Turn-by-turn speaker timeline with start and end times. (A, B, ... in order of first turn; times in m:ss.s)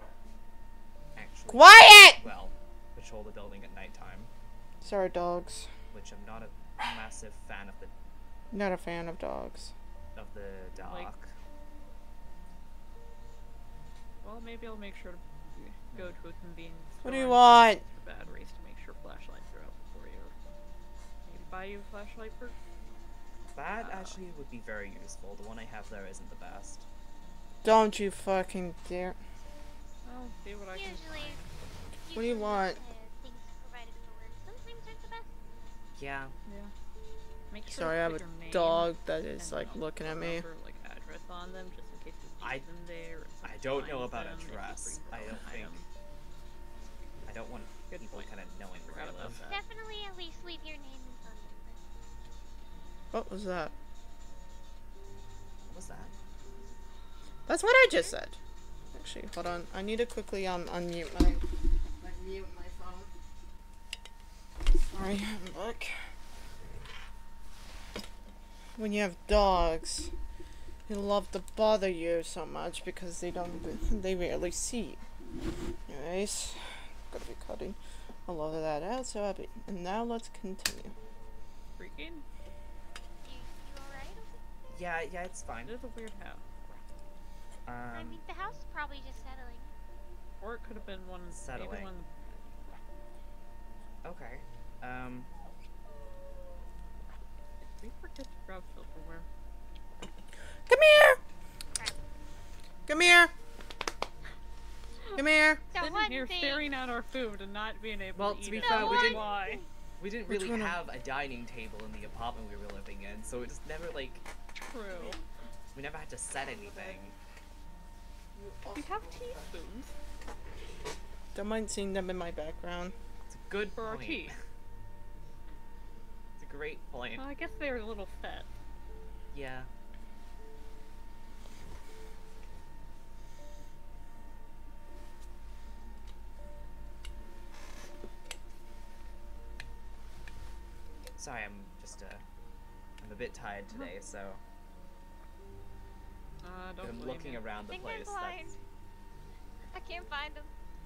0:01.1-0:04.3 A
0:01.5-0:02.2 B
0:04.8-0:05.7 B
0:05.9-0:07.9 A
0:08.5-0:09.7 B
0:10.1-0:11.3 A
0:10.8-0:11.1 C
0:14.2-0:20.3 C
0:17.0-0:17.8 B
0:21.2-0:22.5 C
0:23.5-0:26.8 A
0:23.8-0:24.2 C
0:27.6-0:29.2 B
0:30.0-0:31.4 C
0:30.7-0:31.4 D
0:32.0-0:35.3 D
0:32.1-0:32.8 B
0:36.0-0:36.3 A
0:36.4-0:36.7 C
0:37.5-0:45.8 C
0:37.7-0:40.4 B
0:42.4-0:42.6 A
0:43.4-0:45.8 A
0:47.2-0:49.4 A
0:47.9-0:48.3 C
0:48.8-0:49.6 C
0:49.4-0:51.8 D
0:53.1-0:53.7 B
0:55.7-0:56.1 A
0:57.5-0:58.4 B
0:58.9-1:01.4 B
1:02.0-1:03.1 B
1:04.6-1:06.0 B
1:08.8-1:10.1 B
1:10.8-1:15.0 B
1:15.9-1:21.0 B
1:21.8-1:22.2 C
1:23.2-1:24.4 D
1:24.7-1:25.7 A
1:25.6-1:26.4 C
1:27.6-1:28.2 A
1:27.9-1:29.7 D
1:30.4-1:32.4 C
1:31.3-1:31.9 A
1:34.0-1:35.3 A
1:37.6-1:39.3 C
1:40.6-1:41.2 B
1:42.9-1:43.3 B
1:45.2-1:45.6 B
1:45.7-1:46.7 D
1:45.8-1:49.6 C
1:48.2-1:49.4 A
1:48.6-1:49.6 D
1:50.0-1:54.2 A
1:50.3-1:50.7 B
1:54.7-1:55.2 C
1:55.7-1:57.2 A
1:58.4-1:58.8 B
1:58.7-1:59.9 C
2:01.3-2:02.9 B
2:03.3-2:04.4 A
2:03.8-2:04.4 C
2:06.4-2:07.2 A
2:07.2-2:08.5 C
2:09.3-2:09.7 A
2:21.2-2:22.2 A
2:23.0-2:24.4 A
2:26.4-2:27.4 C
2:26.8-2:28.5 A
2:27.7-2:28.6 D
2:29.7-2:30.5 D